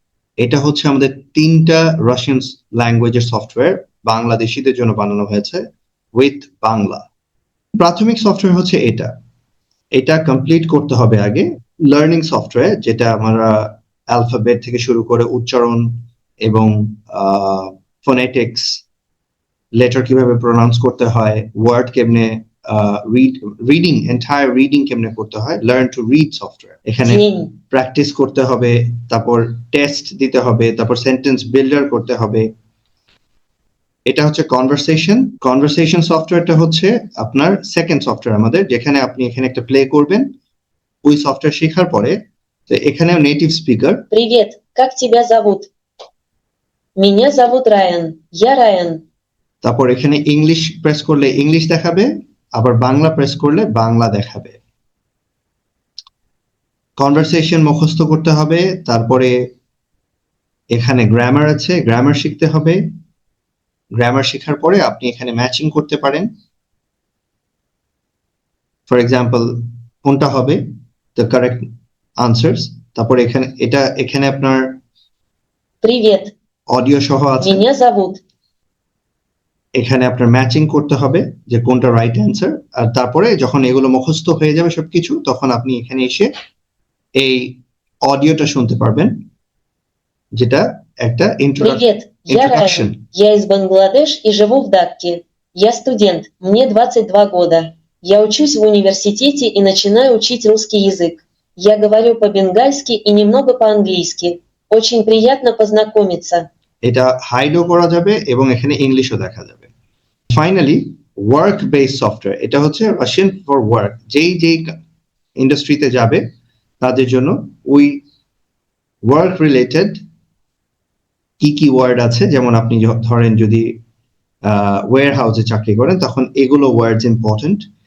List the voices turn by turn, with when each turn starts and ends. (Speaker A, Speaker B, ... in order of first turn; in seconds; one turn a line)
Speaker A: 0.4-5.6
Speaker A: 6.2-7.1
Speaker A: 7.8-9.1
Speaker A: 9.9-18.8
Speaker A: 19.8-32.5
Speaker B: 27.1-27.5
Speaker A: 34.1-40.3
Speaker A: 41.0-42.2
Speaker A: 42.7-44.0
Speaker B: 44.1-45.7
Speaker B: 47.0-49.0
Speaker A: 49.6-54.6
Speaker A: 57.0-59.3
Speaker A: 60.7-62.8
Speaker A: 64.0-66.3
Speaker A: 68.9-70.6
Speaker A: 71.2-71.7
Speaker A: 72.2-74.8
Speaker B: 75.8-76.3
Speaker A: 76.7-77.6
Speaker B: 77.4-78.2
Speaker A: 79.8-86.3
Speaker A: 87.2-89.2
Speaker A: 90.4-93.0
Speaker B: 91.6-106.5
Speaker A: 106.8-109.7
Speaker A: 110.3-114.7
Speaker A: 115.4-116.2
Speaker A: 116.8-118.0
Speaker A: 119.0-120.0
Speaker A: 121.4-123.8
Speaker A: 124.5-127.7